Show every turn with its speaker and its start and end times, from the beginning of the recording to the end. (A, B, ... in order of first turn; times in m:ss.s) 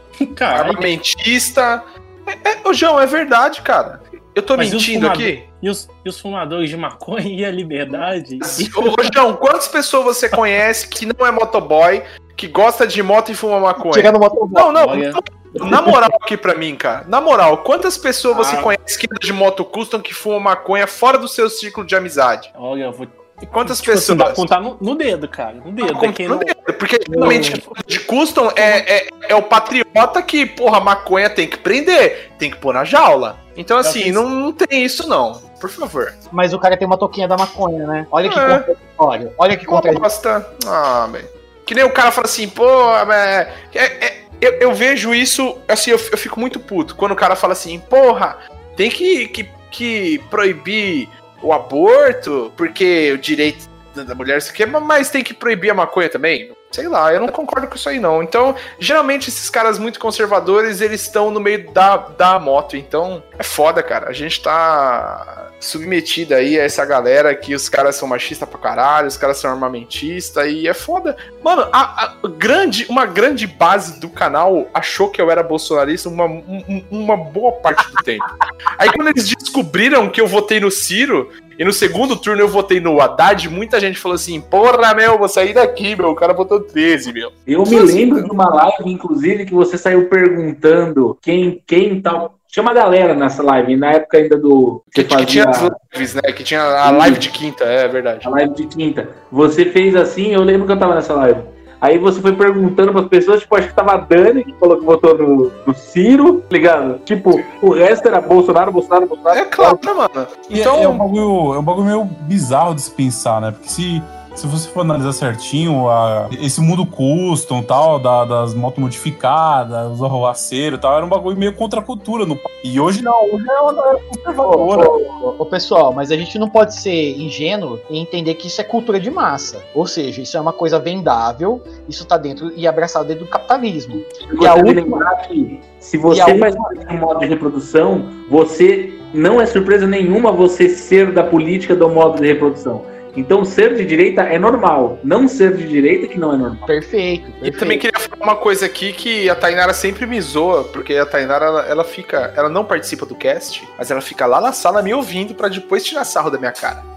0:00.2-0:00.9 A
0:00.5-0:05.4 B
0:04.6-0:09.1 A
0:08.4-0:22.5 B
0:13.8-0:14.8 C
0:14.8-0:15.2 A
0:15.6-0:16.0 C
0:18.3-0:18.7 A
0:22.6-0:26.5 A
0:23.4-0:24.5 B
0:25.8-0:36.2 B
0:27.1-0:27.6 C
0:27.2-0:28.0 A
0:28.6-0:28.8 A
0:33.8-0:34.2 A
0:36.3-0:40.1 C
0:38.2-0:38.7 B
0:39.7-1:28.3 B
1:27.5-1:35.8 D
1:35.0-1:38.3 B
1:36.8-1:37.3 D
1:38.2-1:49.8 D
1:49.3-1:51.0 B
1:50.5-2:05.0 E
2:04.4-2:15.0 C
2:14.3-2:26.7 D
2:16.1-2:16.6 C
2:26.7-2:27.8 C
2:27.4-2:36.9 B